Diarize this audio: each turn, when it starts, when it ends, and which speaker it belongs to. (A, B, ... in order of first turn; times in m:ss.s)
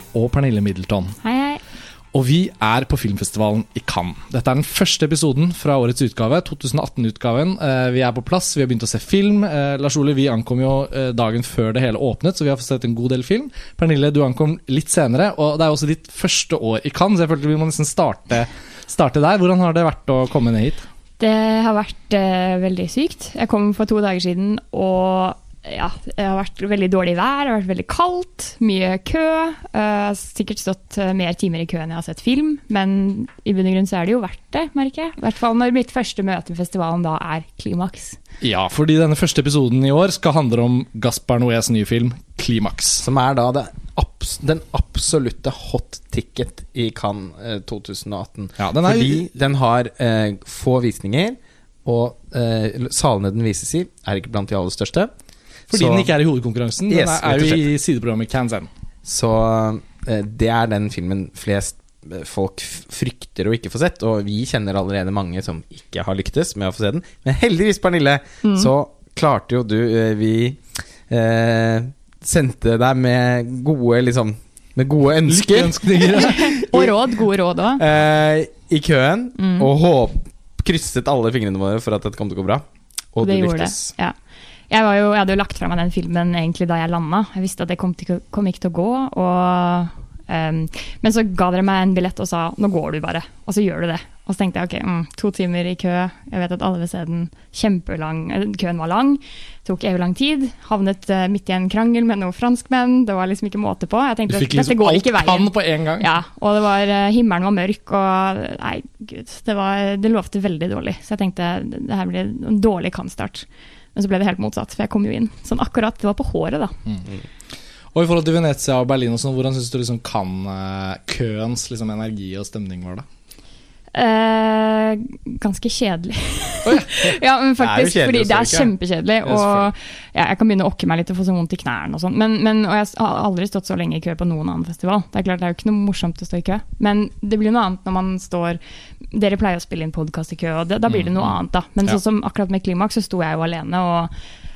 0:00.1-0:01.2 A
0:01.2-0:01.6 B
0:02.1-0:20.9 A
0:21.2-0:38.2 B
0:38.4-0:43.0 A
0:43.0-0:55.1 C
0:48.6-0:49.2 A
0:55.7-0:56.1 C
0:55.7-0:58.7 A
0:56.9-0:57.6 C
0:59.0-1:17.0 C
1:08.4-1:08.7 B
1:15.2-1:16.6 A
1:16.1-1:17.8 B
1:17.8-1:23.9 C
1:19.4-1:19.7 B
1:23.2-1:24.1 B
1:24.7-1:56.7 B
1:44.3-1:46.1 A
1:57.9-2:03.0 A
2:03.9-2:18.6 B
2:06.6-2:06.9 A
2:07.6-2:08.7 C
2:09.2-2:09.6 A
2:19.1-2:24.1 B
2:21.0-2:21.3 A